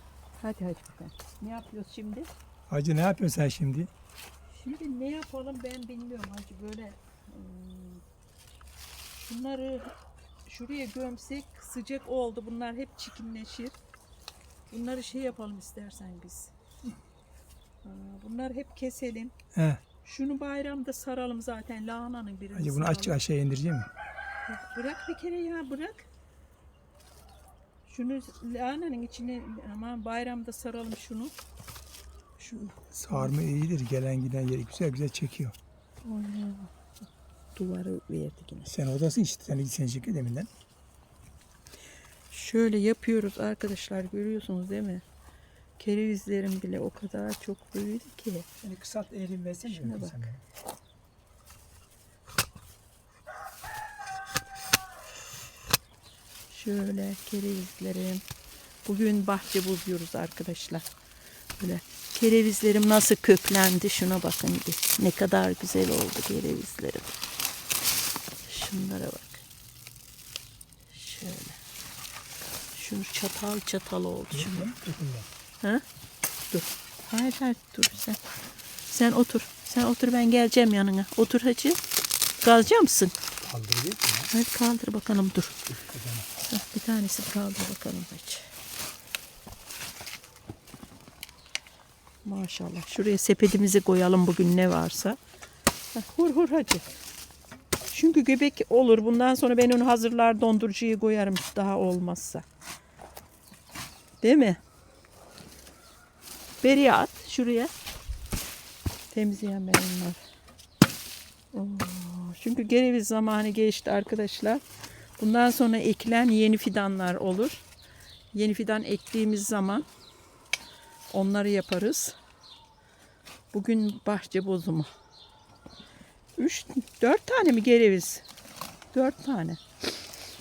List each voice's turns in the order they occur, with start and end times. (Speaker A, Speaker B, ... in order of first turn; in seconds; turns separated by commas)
Speaker A: 0.4-2.3, Speaker B: 2.7-3.9, Speaker A: 4.5-8.0, Speaker A: 9.2-9.9, Speaker A: 10.5-13.8, Speaker A: 14.7-16.5, Speaker A: 17.8-19.3, Speaker B: 19.6-19.8, Speaker A: 20.0-23.2, Speaker B: 22.5-23.9, Speaker A: 24.5-26.1, Speaker A: 27.9-31.3, Speaker A: 32.4-33.3, Speaker B: 32.9-35.5, Speaker A: 36.0-36.7, Speaker A: 37.5-38.7, Speaker B: 38.7-40.5, Speaker A: 42.3-45.0, Speaker A: 45.8-48.5, Speaker B: 48.6-50.4, Speaker A: 49.7-50.3, Speaker A: 56.5-58.2, Speaker A: 58.9-60.9, Speaker A: 61.6-67.1, Speaker A: 68.5-69.4, Speaker A: 70.9-71.6, Speaker A: 72.7-74.7, Speaker B: 74.3-75.3, Speaker A: 76.5-78.2, Speaker A: 78.9-81.8, Speaker A: 82.4-83.2, Speaker B: 83.4-84.3, Speaker A: 84.3-85.7, Speaker B: 85.7-86.3, Speaker A: 86.4-88.5, Speaker A: 92.2-95.2, Speaker A: 95.9-96.9, Speaker A: 97.9-102.5, Speaker A: 104.2-104.6, Speaker A: 106.6-107.7, Speaker A: 109.1-110.2, Speaker A: 111.5-114.6, Speaker A: 115.2-117.7, Speaker A: 118.3-119.9, Speaker A: 121.1-122.2, Speaker A: 123.5-124.9, Speaker A: 126.4-128.2, Speaker A: 128.9-129.6